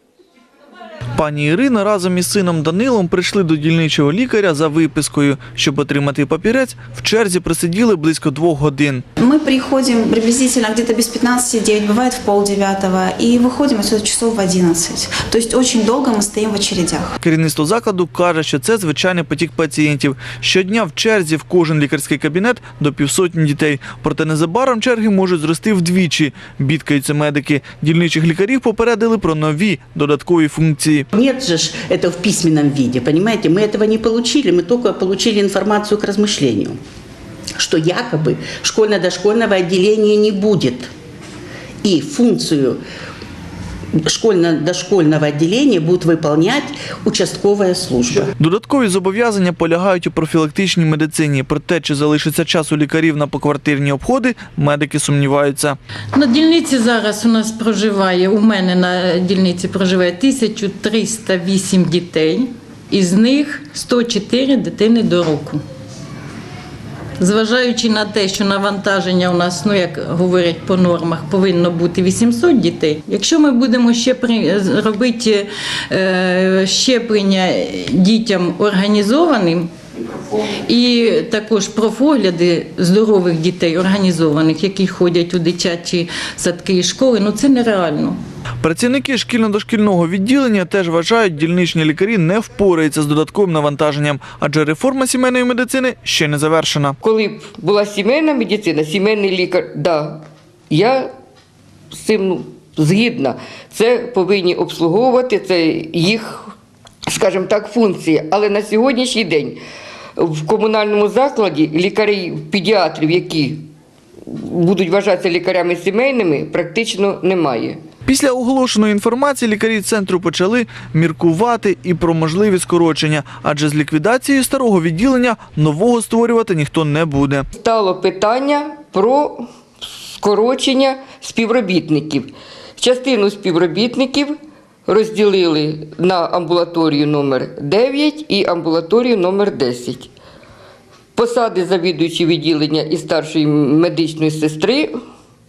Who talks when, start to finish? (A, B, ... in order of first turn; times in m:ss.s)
0:01.2-0:09.0 A
0:09.2-0:17.1 B
0:17.2-0:31.0 A
0:31.1-0:36.8 C
0:37.6-0:40.9 C
0:41.8-0:42.8 C
0:44.1-0:48.3 C
0:48.4-0:55.8 A
0:56.1-1:05.6 D
1:07.2-1:19.7 D
1:20.7-1:28.2 D
1:28.6-1:37.0 A
1:37.0-1:41.1 E
1:41.9-1:46.5 E
1:47.1-1:49.6 E
1:50.2-1:53.6 E
1:54.3-1:57.8 E
1:58.1-2:07.5 A
2:07.6-2:09.4 E
2:10.1-2:14.4 E
2:14.9-2:20.1 E
2:21.2-2:24.9 E